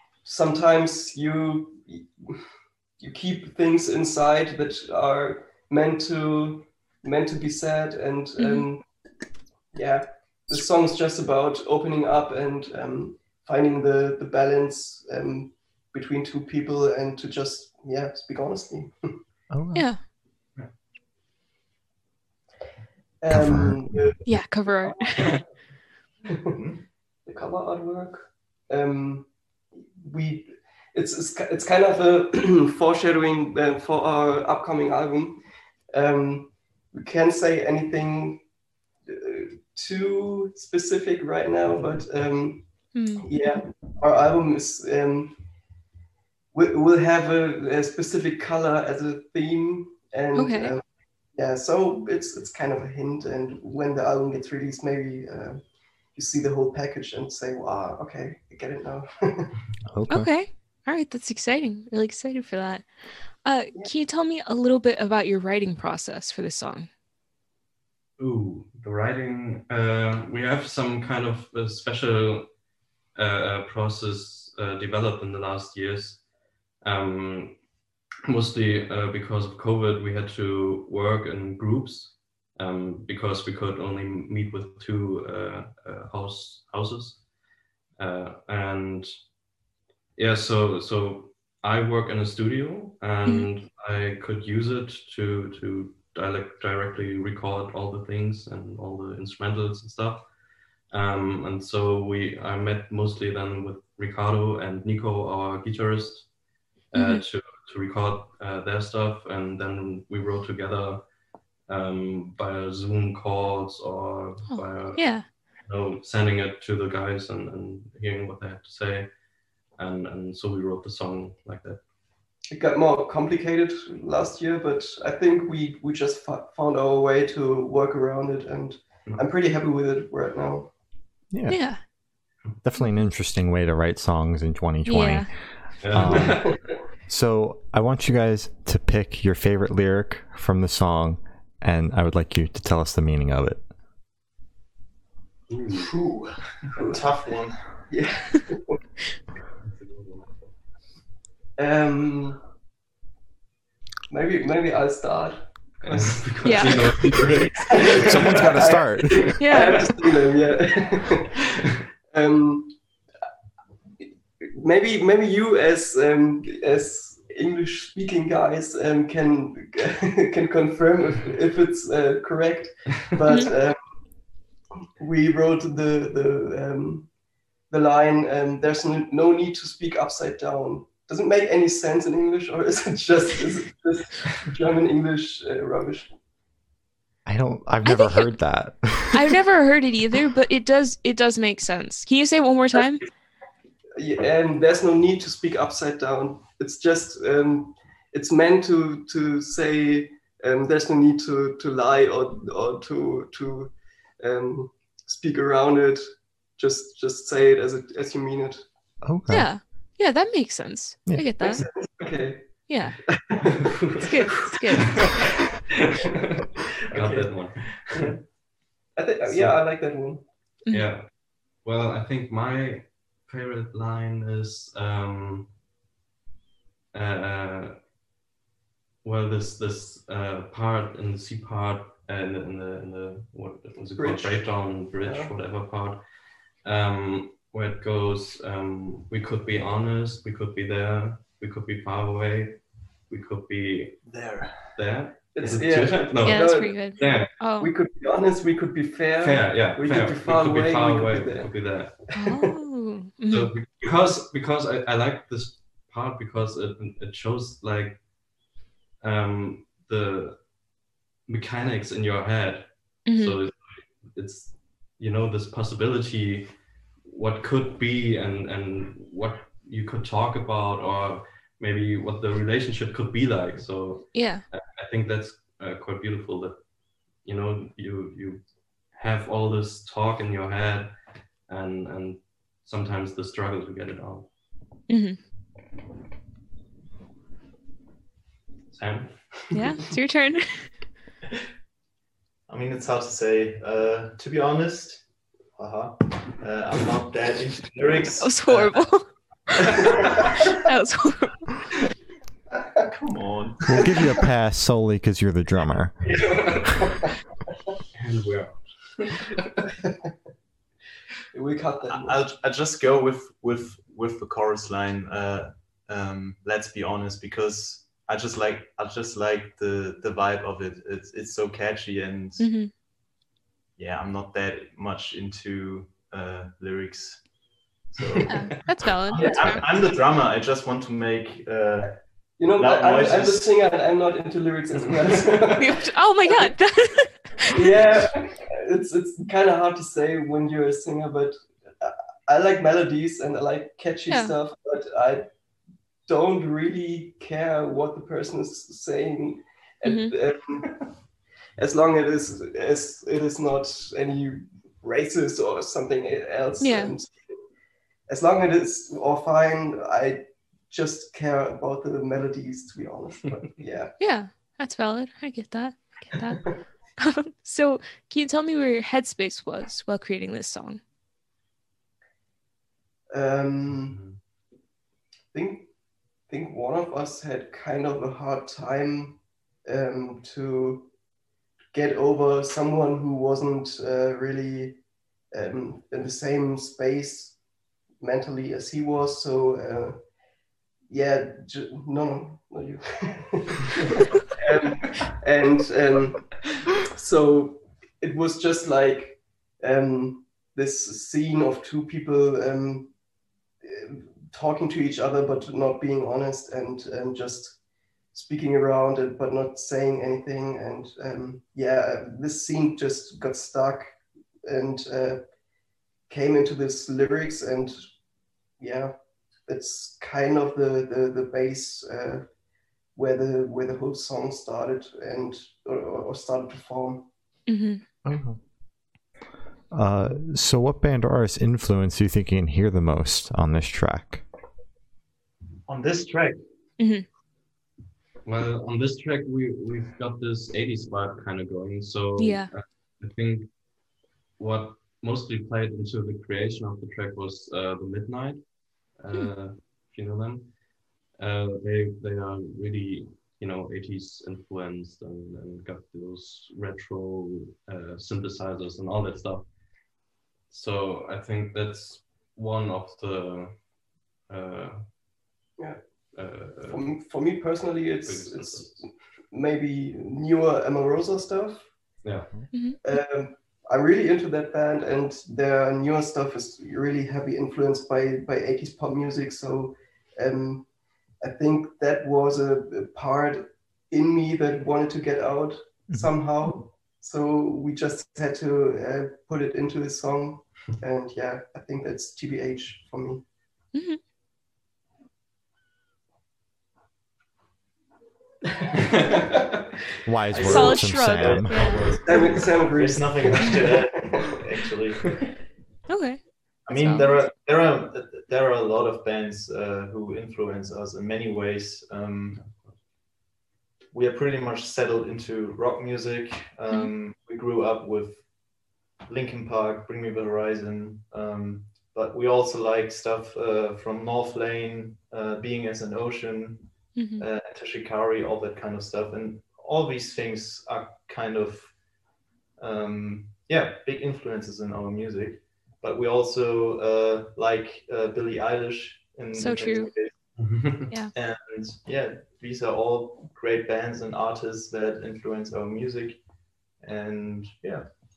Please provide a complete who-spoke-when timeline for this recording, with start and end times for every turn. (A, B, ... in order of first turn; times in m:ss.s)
0:00.2-0:02.4 A
0:03.0-0:08.8 A
0:08.4-0:08.7 B
0:09.7-0:19.2 A
0:19.5-0:19.9 C
0:19.7-0:20.0 B
0:23.2-0:24.2 A
0:23.3-0:24.0 C
0:24.2-0:25.4 B
0:24.8-0:25.4 A
0:26.3-0:26.6 A
0:26.5-0:26.8 D
0:27.2-0:29.3 A
0:29.8-0:38.4 A
0:39.0-0:42.7 A
0:42.9-0:43.4 B
0:43.2-0:45.4 A
0:46.5-0:50.8 A
0:50.3-0:50.7 B
0:51.3-0:55.6 A
0:56.1-0:59.6 A
0:59.9-1:00.3 C
1:00.1-1:02.8 B
1:03.4-1:06.9 B
1:08.2-1:12.5 E
1:13.1-1:16.2 E
1:16.8-1:17.6 E
1:18.2-1:27.2 E
1:28.0-1:29.1 E
1:30.2-1:40.2 E
1:40.9-1:46.3 E
1:46.9-1:47.2 B
1:46.9-1:51.0 E
1:51.7-1:55.0 E
1:54.5-1:55.2 B
1:55.7-1:59.1 E
1:59.8-2:01.8 E
2:02.5-2:10.7 A
2:11.3-2:11.6 C
2:11.5-2:11.8 B
2:12.6-2:15.3 C
2:14.8-2:15.3 B
2:15.8-2:16.6 E
2:15.8-2:23.6 C
2:25.5-2:25.9 E
2:25.7-2:27.6 D
2:26.8-2:27.0 A
2:27.9-2:28.8 A
2:29.6-2:30.5 E
2:31.6-2:32.4 A
2:34.1-2:41.4 A
2:35.8-2:38.5 E
2:36.4-2:37.0 B
2:37.1-2:38.4 D
2:37.9-2:39.4 C
2:39.4-2:39.8 B
2:42.1-2:42.8 A
2:44.4-2:53.8 A
2:55.0-2:57.1 A
2:57.7-3:06.1 A
3:07.2-3:09.4 C
3:07.8-3:08.3 B
3:09.1-3:13.0 B
3:14.0-3:26.0 A
3:26.6-3:28.6 A
3:29.0-3:29.5 C
3:29.3-3:31.6 B
3:31.4-3:32.5 A
3:32.7-3:33.0 B
3:33.0-3:35.2 A
3:33.6-3:34.0 E
3:34.0-3:35.2 B
3:34.9-3:38.1 E
3:36.9-3:37.3 A
3:39.0-3:40.2 A
3:39.3-3:39.5 E
3:40.7-3:41.1 E
3:41.6-3:45.5 E
3:46.9-3:47.8 E
3:49.0-3:56.0 E
3:54.0-3:54.4 A
3:55.0-3:55.3 A
3:56.6-4:07.3 E
4:04.0-4:04.7 D
4:05.3-4:07.0 A
4:06.2-4:07.7 B
4:07.6-4:11.5 A
4:09.2-4:12.0 E
4:12.1-4:12.6 A
4:12.1-4:13.5 B
4:13.3-4:18.0 E
4:19.0-4:20.4 E
4:21.3-4:26.5 E
4:23.1-4:23.4 B
4:27.0-4:36.6 E
4:34.1-4:34.4 B
4:37.2-4:38.4 E
4:38.9-4:40.9 E
4:41.5-4:44.3 E
4:44.9-4:45.2 B
4:48.7-4:49.7 E
4:49.5-4:50.6 B
4:52.5-4:55.0 D
4:55.6-4:58.9 D
4:58.2-4:59.1 B
4:59.6-5:01.5 B
4:59.8-5:00.5 D
5:02.8-5:04.0 D
5:03.6-5:06.0 C
5:06.1-5:07.1 A
5:06.2-5:06.9 E
5:07.9-5:09.6 E
5:11.3-5:12.2 A
5:11.9-5:22.5 D
5:22.4-5:22.7 B
5:23.8-5:27.2 D
5:27.9-5:32.0 D
5:28.2-5:29.7 B
5:29.1-5:29.6 A
5:32.4-5:36.5 A
5:32.5-5:33.5 D
5:35.6-5:37.6 B
5:37.5-5:45.3 A
5:44.1-5:44.3 B
5:46.1-5:50.8 A
5:49.8-5:50.1 B
5:51.6-5:57.2 A
5:56.6-5:56.9 B
5:58.1-6:03.9 A
6:04.0-6:10.8 B
6:13.1-6:14.0 A
6:13.8-6:14.2 E
6:15.3-6:15.7 A
6:16.3-6:20.9 A
6:21.7-6:24.8 A
6:25.3-6:27.4 A
6:28.0-6:30.0 A
6:30.9-6:42.9 A
6:43.6-6:47.6 A
6:48.1-6:53.9 A
6:54.4-6:55.2 A
6:56.1-6:57.8 A
6:58.6-6:58.9 A
6:59.4-7:02.2 A
7:02.9-7:07.1 A
7:07.5-7:07.8 B
7:08.0-7:08.4 C
7:09.7-7:14.2 C
7:15.7-7:16.4 D
7:16.8-7:17.0 B
7:18.2-7:23.5 E
7:22.2-7:22.5 B
7:24.4-7:28.4 E
7:29.0-7:30.5 E
7:31.2-7:39.4 E
7:40.5-7:43.5 E
7:44.3-7:44.9 E
7:46.1-7:46.9 E
7:46.7-7:51.7 A
7:48.0-7:48.9 E
7:52.0-7:52.3 E
7:52.5-7:52.9 B
7:52.8-8:00.7 A
8:01.2-8:13.2 A
8:13.7-8:14.0 B
8:18.8-8:19.4 E
8:20.0-8:21.8 C
8:20.3-8:25.3 D
8:20.3-8:22.4 B
8:22.0-8:24.4 A
8:25.9-8:27.3 B
8:26.6-8:32.4 D
8:32.3-8:32.7 E
8:33.9-8:38.2 D
8:39.1-8:46.6 D
8:47.0-8:47.2 B
8:47.2-8:51.7 D
8:52.6-9:00.2 D
8:59.3-8:59.9 B
9:00.4-9:00.9 E
9:01.1-9:06.2 D
9:06.8-9:07.8 D